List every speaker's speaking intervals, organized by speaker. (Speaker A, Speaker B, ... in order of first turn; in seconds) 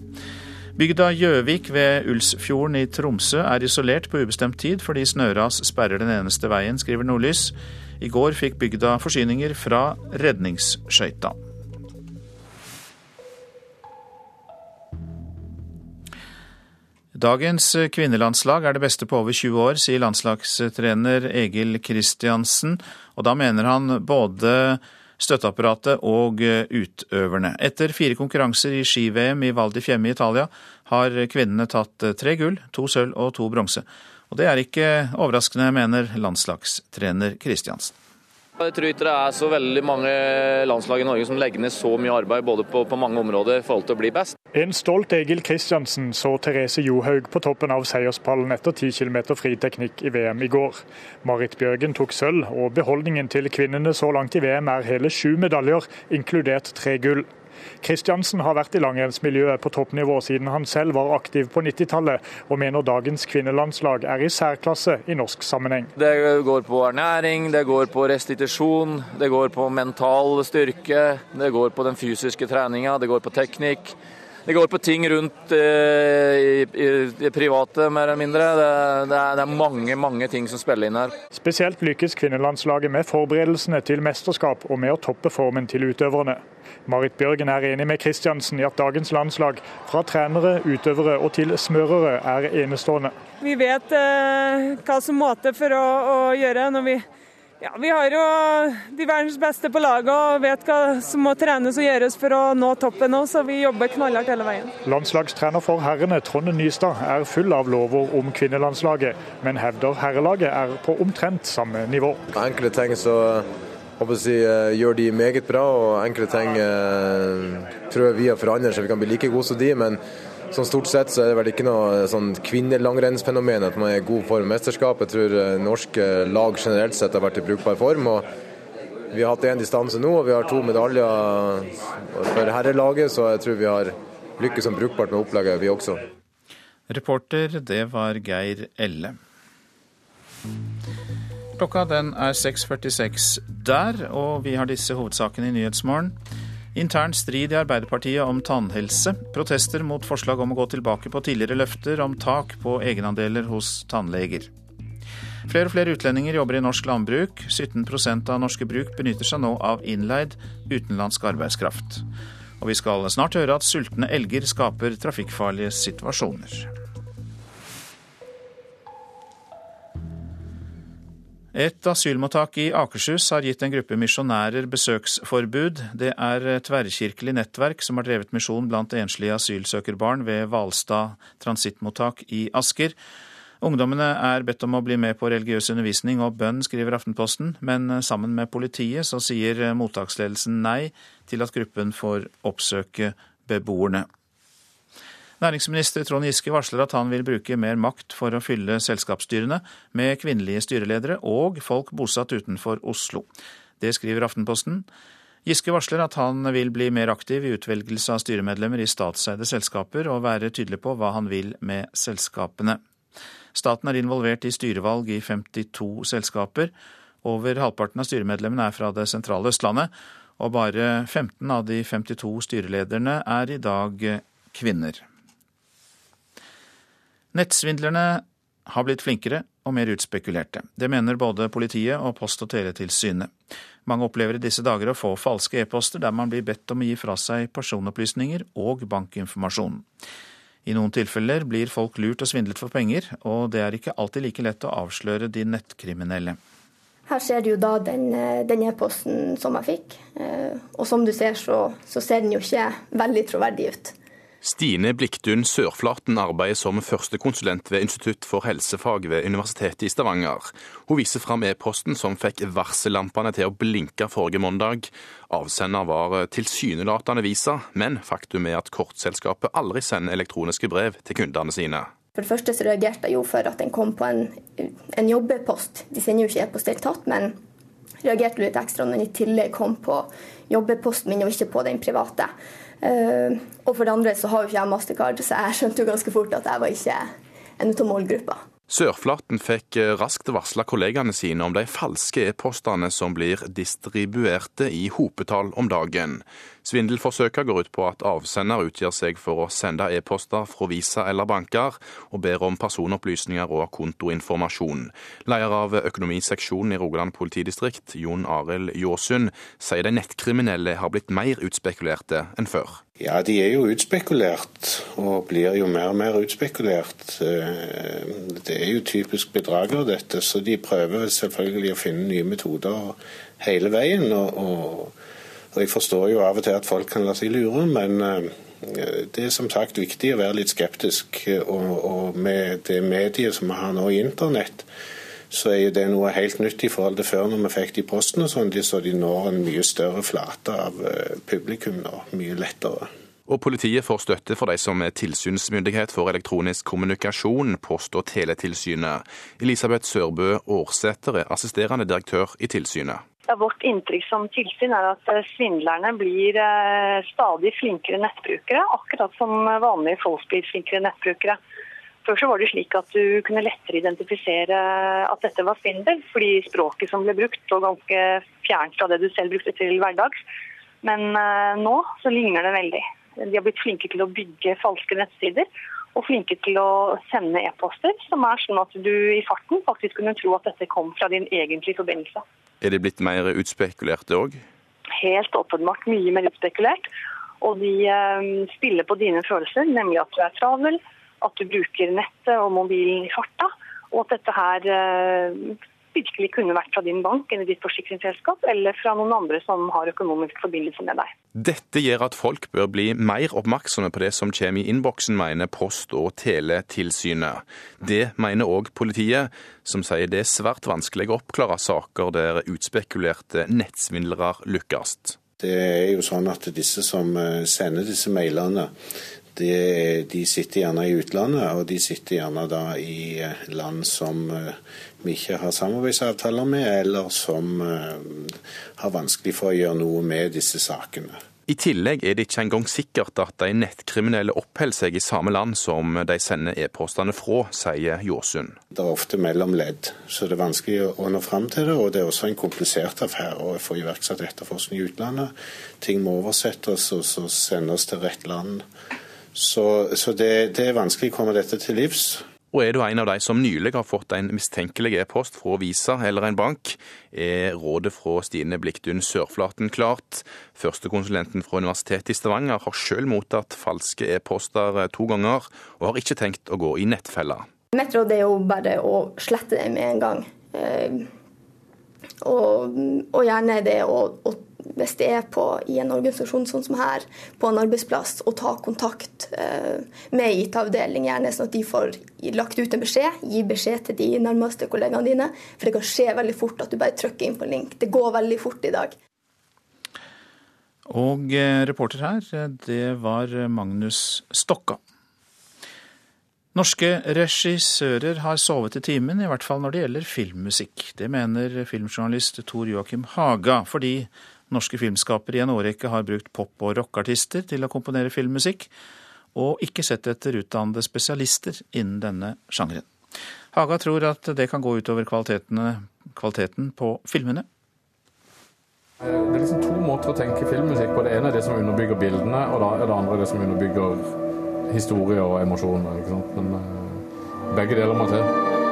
Speaker A: 0.8-11.4, 17.1-38.0, 136.9-139.2, 141.6-146.2, 146.8-154.5, 155.5-162.0, 162.6-166.7, 171.5-183.0, 183.6-194.1, 195.4-203.3, 203.8-204.9, 205.4-212.8, 213.5-216.7, 217.2-225.0, 227.3-233.3, 233.9-239.8, 240.7-246.4, 490.9-494.8, 496.5-508.7, 509.4-512.9, 513.5-517.5
Speaker B: 38.6-44.3, 66.0-74.0, 74.5-81.1
Speaker C: 44.5-57.3, 57.8-65.9, 81.3-93.2, 104.8-112.2
Speaker D: 93.4-97.0, 97.6-104.7
Speaker E: 112.3-113.5, 114.0-120.0, 120.5-128.3, 129.1-136.1
Speaker F: 247.1-253.9, 272.2-277.4, 278.0-288.4, 467.7-471.1, 472.2-488.9
Speaker G: 254.4-271.9, 288.7-312.8, 343.3-353.0, 382.6-384.4, 401.4-415.2, 431.5-438.6, 452.5-467.5
Speaker H: 313.0-325.0, 325.5-334.7, 335.3-342.9, 415.4-418.7, 419.3-431.2, 438.7-448.6, 449.4-452.3
Speaker I: 353.3-361.4, 362.1-370.2, 370.8-382.2, 385.0-386.9, 387.4-401.1
Speaker J: 519.1-524.1, 524.7-528.3